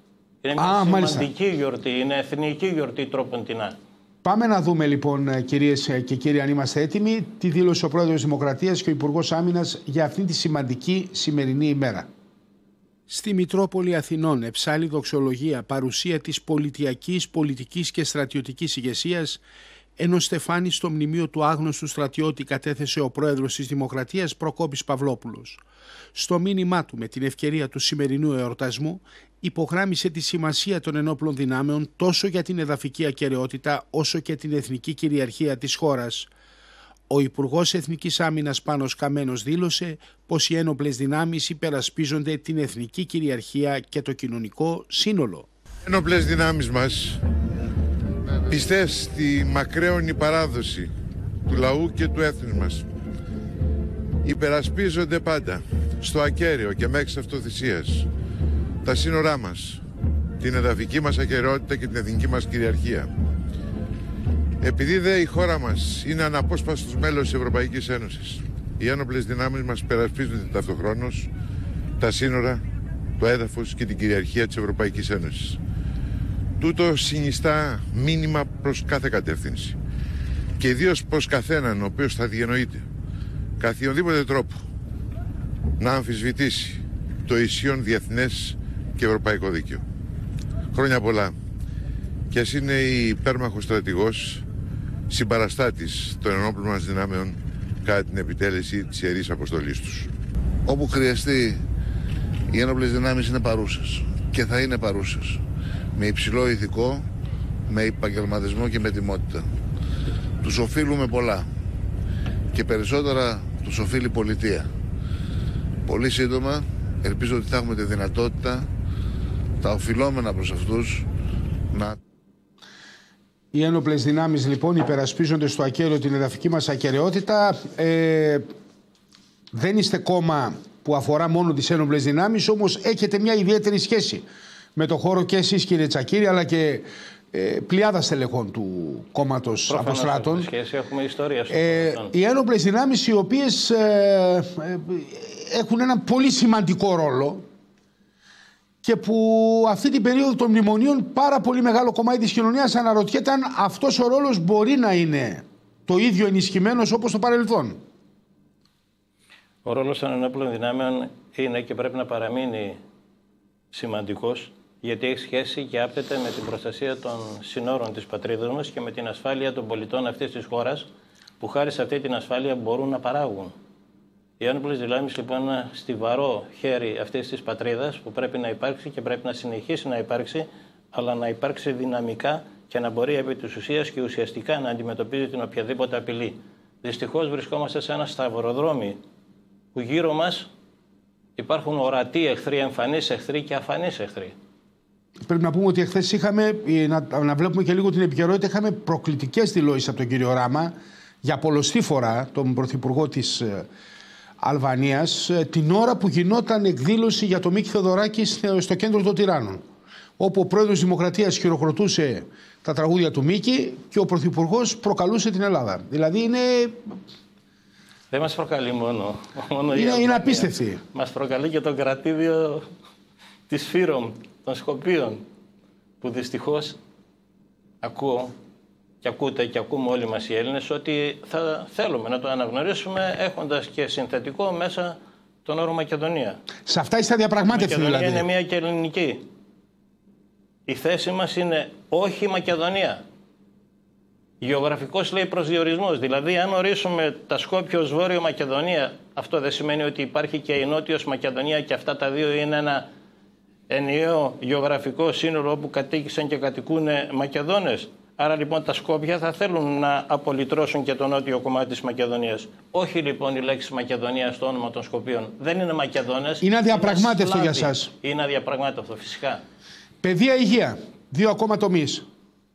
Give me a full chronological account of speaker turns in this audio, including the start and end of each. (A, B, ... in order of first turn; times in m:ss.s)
0:00.4-0:03.8 A
0:00.6-0:01.3 B
0:04.2-0:12.1 B
0:13.1-0:19.4 B
0:20.0-0:25.6 B
0:26.1-0:36.3 B
0:37.1-0:45.5 B
0:45.8-0:47.2 C
0:48.3-0:50.9 C
0:51.5-0:52.9 C
0:54.2-0:58.1 C
0:58.8-0:59.8 C
1:00.4-1:03.1 C
1:04.6-1:11.3 C
1:12.0-1:12.6 C
1:13.2-1:15.6 C
1:16.6-1:19.8 C
1:20.6-1:22.8 C
1:23.6-1:24.6 C
1:25.8-1:29.8 C
1:30.7-1:31.4 C
1:32.3-1:34.4 C
1:35.1-1:40.1 C
1:40.7-1:41.6 D
1:42.5-1:45.4 D
1:46.0-1:47.0 D
1:47.7-1:49.5 D
1:50.4-1:51.5 D
1:52.5-1:54.7 D
1:55.8-1:58.7 D
1:59.6-2:01.1 D
2:01.7-2:02.0 D
2:03.5-2:08.5 B
2:09.5-2:14.2 B
2:14.8-2:20.5 B
2:19.7-2:22.1 A
2:21.5-2:27.4 B
2:28.8-2:37.8 B
2:39.6-2:42.8 A
2:43.7-2:50.9 A
2:51.4-2:53.6 A
2:54.4-3:09.0 A
3:09.8-3:10.5 A
3:11.4-3:14.3 A
3:15.3-3:23.7 B
3:24.4-3:29.6 B
3:30.2-3:37.0 B
3:38.1-3:42.7 A
3:39.7-3:40.8 B
3:43.5-3:45.2 A
3:46.0-3:46.8 A
3:47.8-3:48.3 A
3:49.0-3:56.4 A
3:56.6-3:58.3 B
3:57.5-3:59.2 A
4:00.7-4:03.0 A
4:04.4-4:12.9 A
4:13.7-4:29.4 A
4:26.4-4:27.9 B
4:30.0-4:32.0 B